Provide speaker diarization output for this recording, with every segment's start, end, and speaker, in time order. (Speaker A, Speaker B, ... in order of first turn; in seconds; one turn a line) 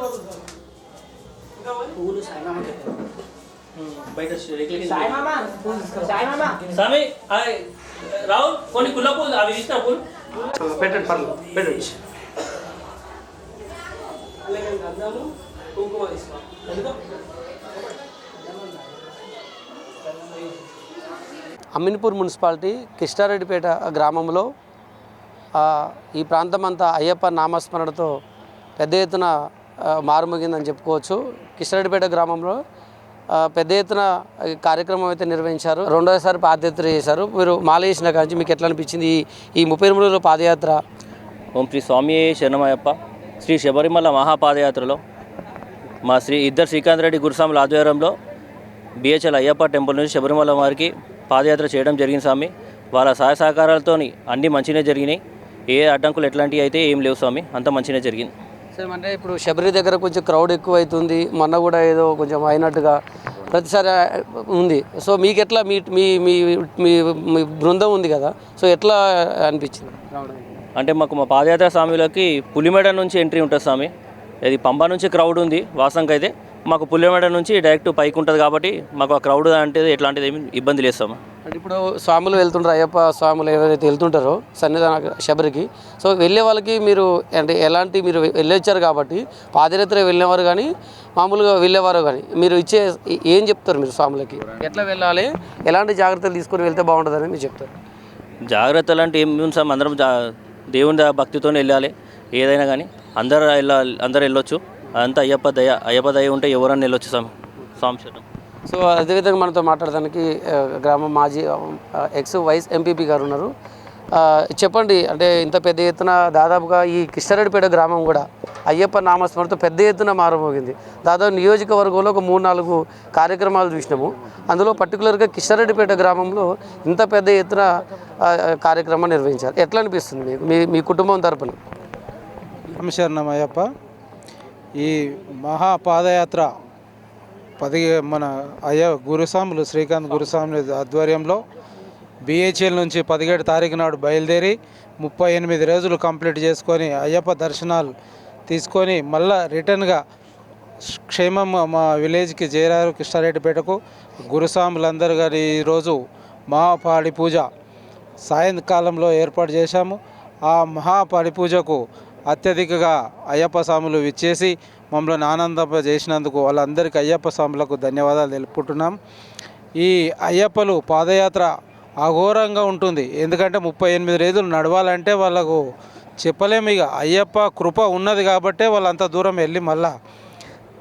Speaker A: 3.8-5.7
Speaker A: 6.7-10.0
Speaker B: 10.5-11.9
Speaker B: 15.9-16.6
Speaker B: 21.7-24.5
Speaker B: 25.6-28.1
Speaker B: 28.8-29.3
Speaker B: 29.9-32.5
Speaker B: 33.4-40.8
Speaker A: 41.5-45.0
Speaker A: 46.0-48.1
Speaker A: 49.0-58.3
Speaker B: 58.7-70.5
Speaker A: 70.8-73.9
Speaker A: 74.4-81.2
Speaker B: 81.4-97.7
Speaker A: 98.5-100.1
Speaker A: 100.7-108.2
Speaker B: 108.6-113.5
Speaker B: 114.1-127.7
Speaker B: 128.2-131.6
Speaker C: 132.8-133.7
Speaker C: 134.8-136.5
Speaker C: 137.6-141.4
Speaker C: 142.2-147.9
Speaker C: 148.5-150.0
Speaker C: 150.9-156.0
Speaker C: 156.5-157.5
Speaker C: 158.2-168.9
Speaker C: 169.8-171.5
Speaker C: 172.0-175.6
Speaker C: 176.2-179.9